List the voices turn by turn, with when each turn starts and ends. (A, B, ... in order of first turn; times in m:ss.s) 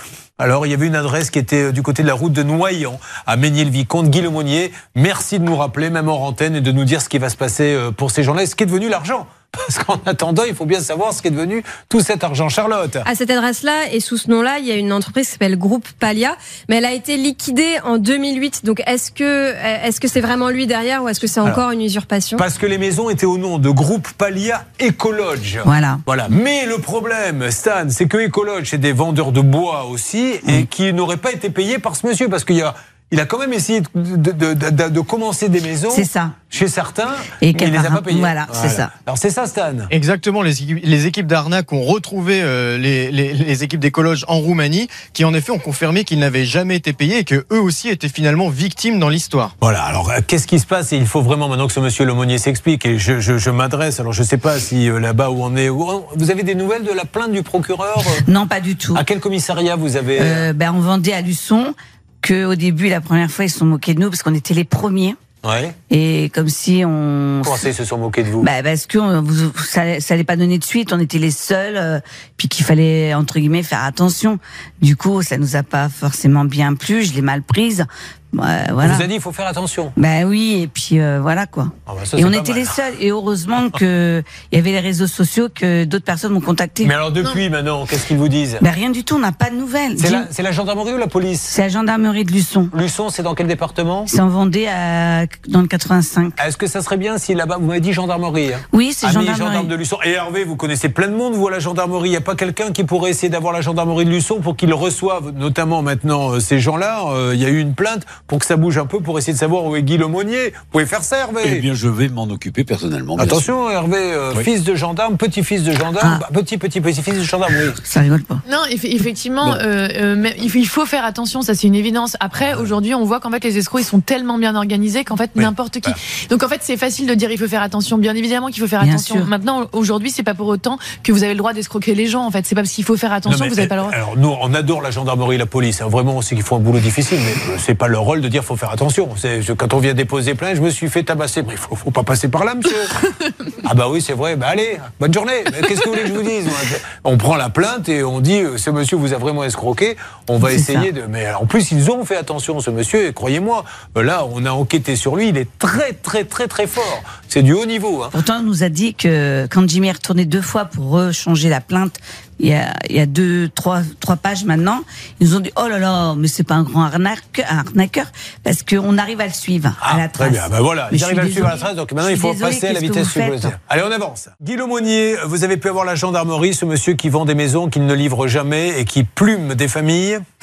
0:00.4-0:13.0 A
0:13.0-0:22.4 B
0:22.4-0:39.9 A
0:25.6-0:26.0 C
0:35.9-0:36.3 C
0:37.4-0:38.9 C
0:39.9-0:49.5 D
0:49.6-0:58.2 A
0:58.2-0:59.0 C
0:58.9-1:00.5 A
1:00.2-1:05.2 C
1:05.4-1:05.7 A
1:05.9-1:07.7 C
1:07.4-1:08.5 A
1:08.4-1:19.1 C
1:18.8-1:19.9 A
1:20.0-1:27.0 C
1:21.9-1:22.8 A
1:26.8-1:28.6 A
1:28.6-1:30.3 C
1:30.0-1:31.5 A
1:31.5-1:32.7 C
1:32.7-1:34.1 A
1:34.1-1:36.4 C
1:36.4-1:51.7 A
1:38.7-1:39.7 C
1:51.4-1:53.5 E
1:53.2-1:57.8 A
1:56.0-1:56.2 C
1:57.8-1:58.4 C
1:58.4-2:14.0 F
2:02.4-2:02.7 A
2:05.4-2:06.0 A
2:08.8-2:09.3 C
2:13.2-2:22.9 A
2:23.6-2:38.1 A
2:30.4-2:30.9 C
2:38.1-2:53.5 C
2:49.8-3:00.2 A